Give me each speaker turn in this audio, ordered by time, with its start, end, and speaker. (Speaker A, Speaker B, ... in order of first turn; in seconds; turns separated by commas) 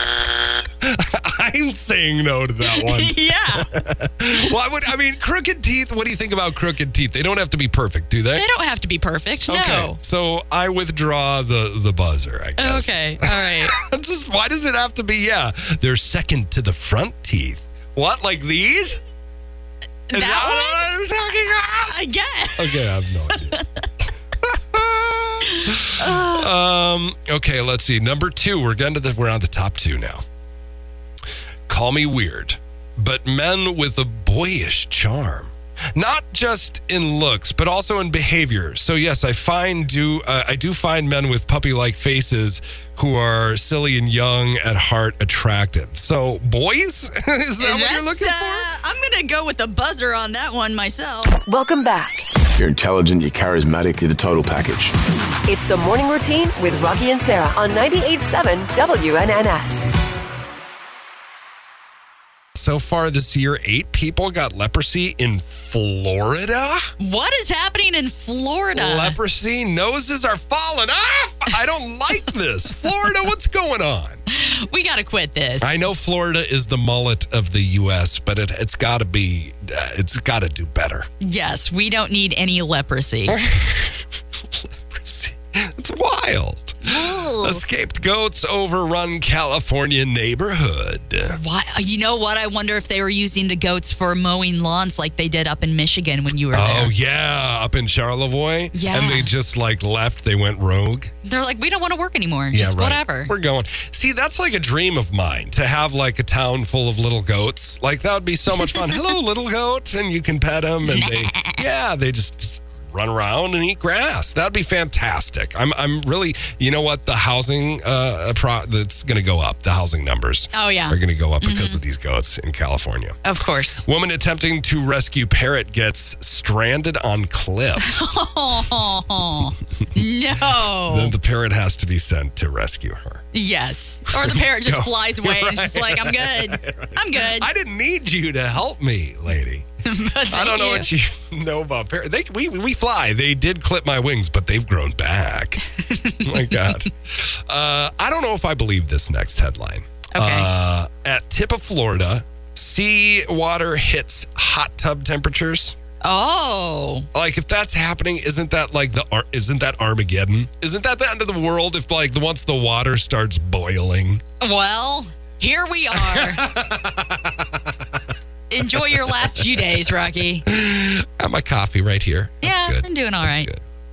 Speaker A: 0.8-8.4, Speaker B: 2.7-3.7, Speaker B: 8.3-10.0, Speaker A: 9.5-19.0, Speaker B: 12.6-13.8, Speaker B: 20.1-23.6, Speaker A: 20.1-21.9, Speaker A: 22.6-23.6, Speaker A: 24.4-30.2, Speaker B: 25.4-26.5, Speaker A: 31.7-48.7, Speaker B: 47.6-51.3, Speaker C: 51.5-52.2, Speaker D: 52.6-54.9, Speaker C: 55.4-59.9, Speaker A: 62.5-66.9, Speaker B: 67.0-69.2, Speaker A: 68.7-74.2, Speaker B: 74.3-75.8, Speaker A: 75.6-81.1, Speaker B: 81.2-83.4, Speaker A: 83.3-91.4, Speaker B: 86.8-87.6, Speaker B: 91.3-96.9, Speaker A: 96.5-101.1, Speaker B: 98.7-99.3, Speaker B: 101.2-103.3, Speaker A: 102.5-123.2, Speaker B: 110.9-111.6, Speaker B: 120.5-121.8, Speaker B: 123.2-123.8, Speaker A: 123.8-128.0, Speaker B: 127.8-131.1, Speaker A: 130.6-133.2, Speaker B: 133.3-137.5, Speaker A: 134.1-139.7, Speaker B: 139.8-140.9, Speaker A: 140.3-145.6, Speaker B: 145.8-146.7, Speaker A: 146.2-155.8, Speaker B: 150.1-150.5, Speaker B: 156.0-157.1, Speaker A: 157.1-164.2, Speaker B: 164.4-166.5, Speaker A: 165.9-168.0, Speaker B: 168.5-170.4, Speaker A: 168.6-169.9, Speaker A: 170.4-173.6, Speaker B: 172.4-173.5